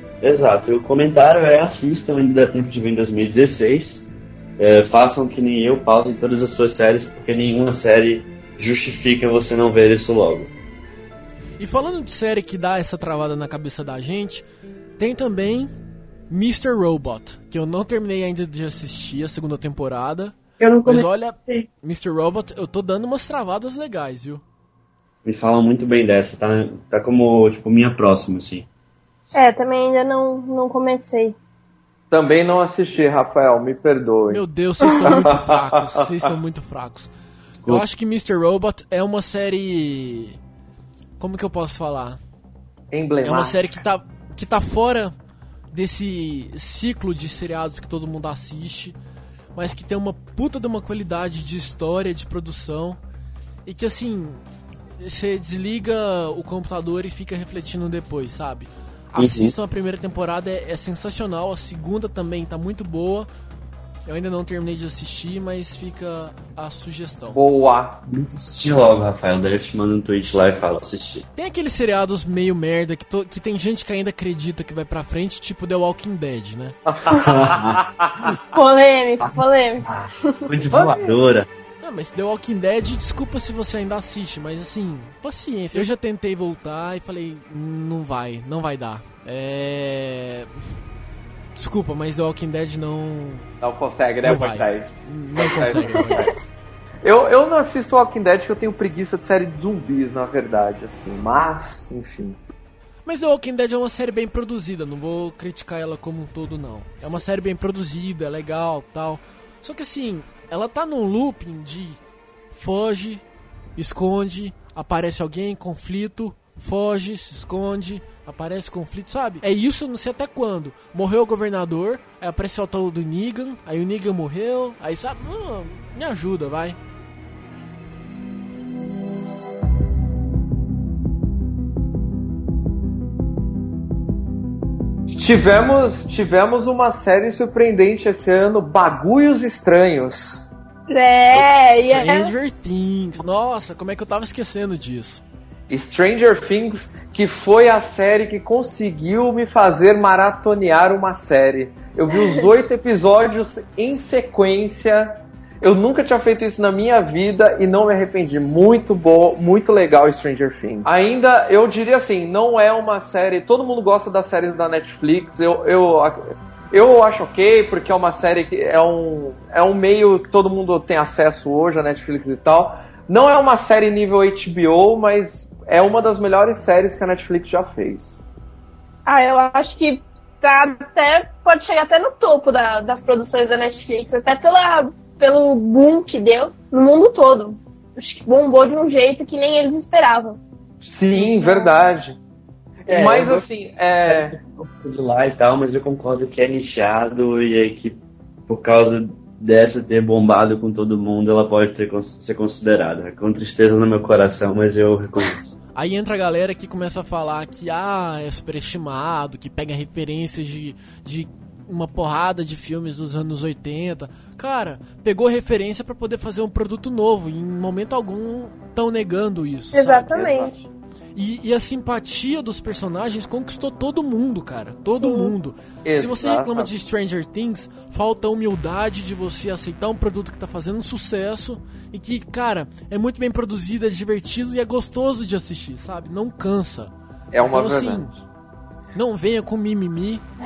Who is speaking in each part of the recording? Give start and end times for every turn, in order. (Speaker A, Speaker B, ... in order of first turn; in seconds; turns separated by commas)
Speaker A: 0.2-4.1, Speaker A: 4.6-10.5, Speaker B: 11.6-14.4, Speaker B: 15.0-15.7, Speaker B: 16.3-24.4, Speaker A: 20.6-21.7, Speaker A: 25.2-28.7, Speaker C: 29.4-31.4, Speaker D: 32.1-36.0, Speaker B: 34.3-37.1, Speaker B: 37.7-40.4, Speaker B: 41.2-42.2, Speaker D: 42.9-43.7, Speaker B: 43.2-45.1, Speaker B: 45.7-49.0, Speaker B: 49.5-53.0, Speaker B: 53.7-54.4, Speaker B: 55.0-63.3, Speaker A: 59.2-59.5, Speaker B: 64.1-67.4, Speaker D: 67.3-68.0, Speaker A: 68.0-71.3, Speaker B: 71.4-76.8, Speaker D: 76.9-78.3, Speaker A: 77.1-78.4, Speaker C: 78.5-80.5, Speaker A: 79.2-81.5, Speaker D: 80.7-81.2, Speaker B: 81.8-90.5, Speaker B: 91.6-93.5, Speaker D: 93.6-96.3, Speaker B: 94.2-96.5, Speaker D: 97.0-102.4, Speaker B: 103.1-112.0, Speaker B: 112.5-113.2, Speaker B: 113.8-126.8, Speaker D: 135.1-140.5, Speaker C: 140.9-142.3, Speaker B: 141.3-145.2, Speaker D: 145.7-178.2, Speaker C: 179.1-190.4, Speaker D: 190.8-192.2, Speaker C: 191.2-191.9, Speaker A: 192.9-193.4, Speaker D: 192.9-194.4, Speaker A: 194.1-205.6, Speaker B: 205.8-220.5, Speaker C: 219.7-220.7, Speaker B: 221.2-238.1, Speaker C: 224.9-225.3, Speaker D: 225.8-226.7, Speaker D: 237.3-238.2, Speaker B: 238.9-240.2